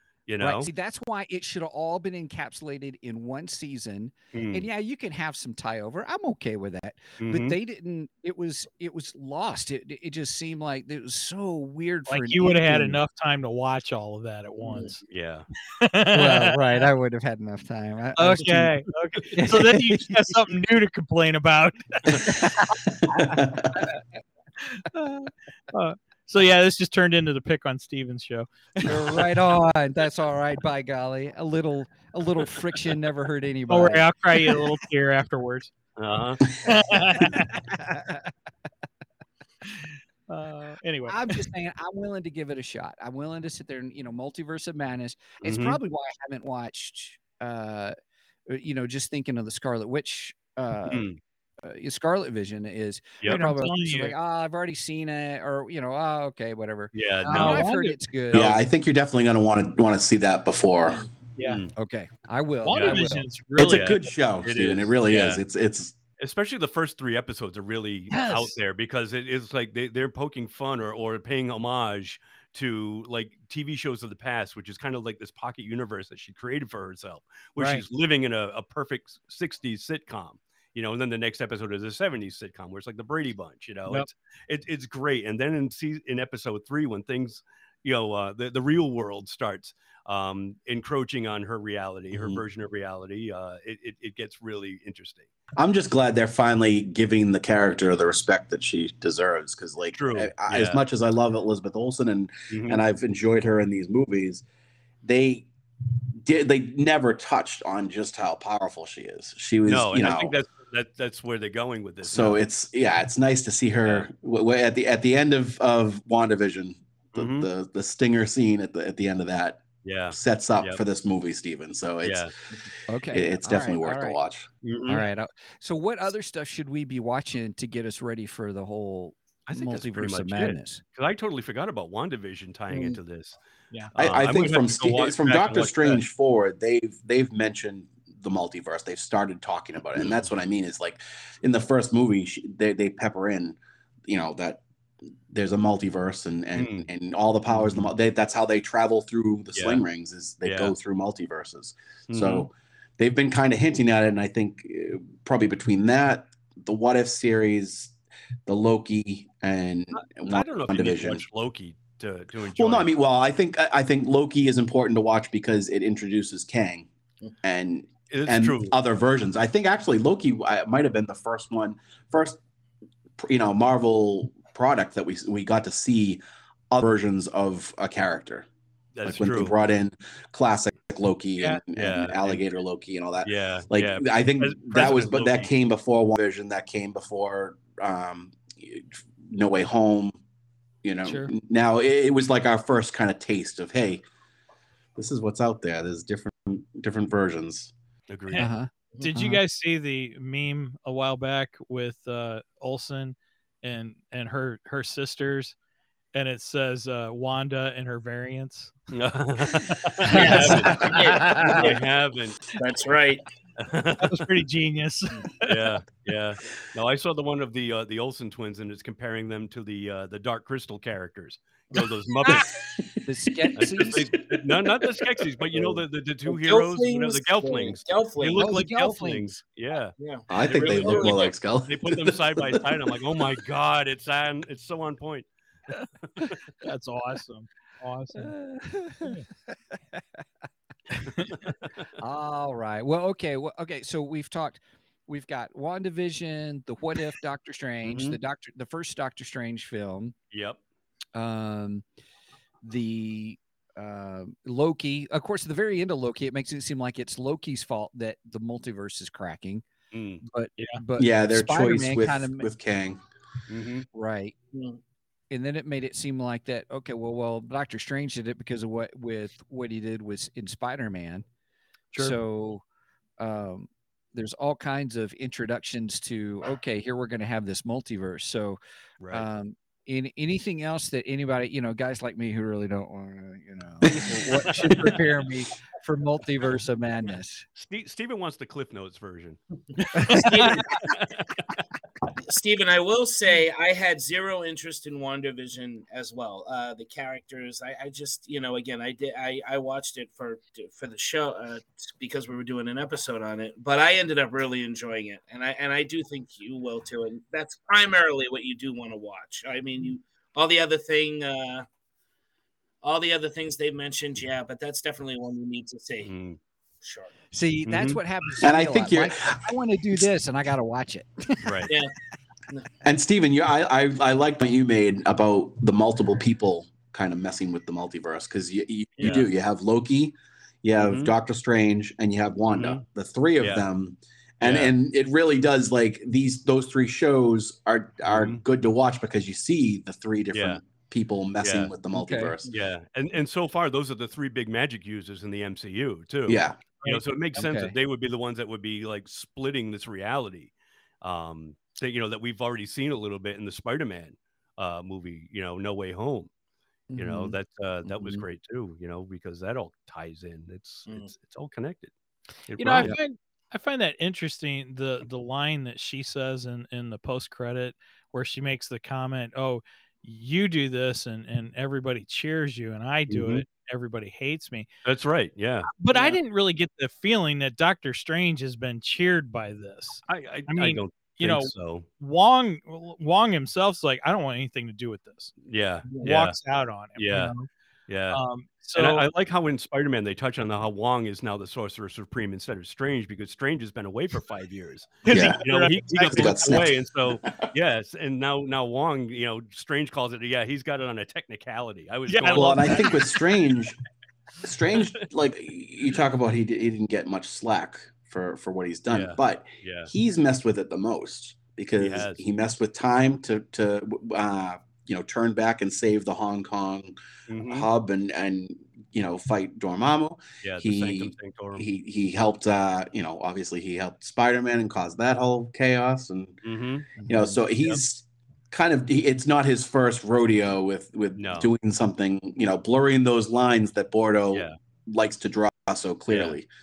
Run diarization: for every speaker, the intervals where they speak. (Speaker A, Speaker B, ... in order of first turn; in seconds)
Speaker A: 0.3-0.7, 4.3-4.7, 7.2-7.6, 15.1-15.5, 36.0-36.5, 45.4-45.8, 50.9-51.2, 56.9-57.6, 58.3-58.6, 61.4-61.7, 62.7-63.0, 63.6-65.4, 66.2-95.3, 99.9-100.8, 102.5-102.8, 109.6-112.4, 117.1-117.5, 119.8-120.8, 122.0-122.3, 124.6-125.1, 129.5-133.4, 133.9-136.0, 140.0-140.2, 146.5-146.9, 147.5-147.8, 149.5-149.8, 150.4-150.7, 152.1-152.5, 159.9-162.9, 168.1-168.8, 178.9-179.6, 181.7-182.4, 183.2-185.5, 198.1-198.5, 208.9-212.5, 213.6-214.2, 215.4-222.6, 223.6-235.3, 236.0-236.4, 241.2-241.9, 247.8-248.2, 250.3-250.6, 259.9-260.7, 263.5-263.9, 279.0-279.2, 284.7-284.9, 287.5-289.4, 316.0-316.4, 317.6-318.0, 321.4-321.7, 329.0-329.3, 330.8-331.1, 332.5-332.8, 333.4-333.6, 334.4-334.7, 338.1-338.4, 340.3-340.6, 341.4-341.7, 342.5-356.3, 356.9-361.9, 362.5-362.9, 373.1-373.4, 374.8-375.8, 380.1-381.9, 385.4-386.4, 386.9-387.3, 387.9-388.2, 388.7-403.0, 404.8-405.1, 408.9-409.9, 411.8-412.2, 417.3-417.7, 420.4-421.6, 426.4-426.9, 431.1-431.5, 434.3-434.6, 436.1-436.4
Speaker B: 0.4-13.0, 16.1-20.3, 22.2-22.6, 28.8-34.6, 37.5-38.3, 41.1-47.9, 48.5-51.1, 51.6-58.5, 61.8-63.3, 122.9-124.2, 124.9-130.8, 198.4-199.4, 211.2-211.5, 223.0-224.1, 228.4-229.3, 238.1-240.2, 242.0-250.1, 251.1-251.8, 252.6-259.6, 260.2-262.5, 263.9-264.3, 265.3-271.2, 271.9-272.6, 273.2-278.6, 279.1-287.4, 317.3-321.7, 341.9-342.3, 347.4-347.8, 356.9-357.4, 427.0-427.4
Speaker C: 12.1-15.0, 15.7-16.9, 18.2-23.2, 24.6-28.5, 33.7-35.7, 36.6-37.6, 39.7-41.4, 53.2-54.1, 57.3-58.0, 61.4-61.6, 62.6-64.0, 68.1-68.5, 77.6-77.8, 191.0-191.3, 198.3-205.5, 206.1-208.7, 209.6-210.8, 214.0-215.5, 236.6-238.3, 289.9-290.6, 362.6-374.7, 375.8-385.3, 385.9-387.5, 388.1-389.1, 395.1-396.6, 402.1-403.1
Speaker D: 23.0-23.8, 58.3-61.1, 63.5-66.0, 92.1-92.4, 95.6-104.4, 105.0-105.5, 106.2-110.4, 112.0-122.3, 123.1-124.5, 133.9-144.6, 145.3-157.9, 158.4-161.2, 162.5-166.9, 167.4-172.4, 173.2-178.5, 179.0-190.2, 190.8-194.0, 194.9-197.7, 222.6-223.0, 224.2-224.7, 230.3-232.7, 261.0-263.0, 318.4-319.4, 322.8-342.5, 346.3-346.6, 395.1-395.4, 396.0-397.5, 402.3-403.8, 404.4-426.4, 427.0-436.5
Speaker E: 132.7-133.0, 210.1-211.8, 212.5-213.2, 226.3-228.6, 230.0-231.3, 289.9-290.8, 292.3-311.6, 312.8-316.1, 316.8-317.1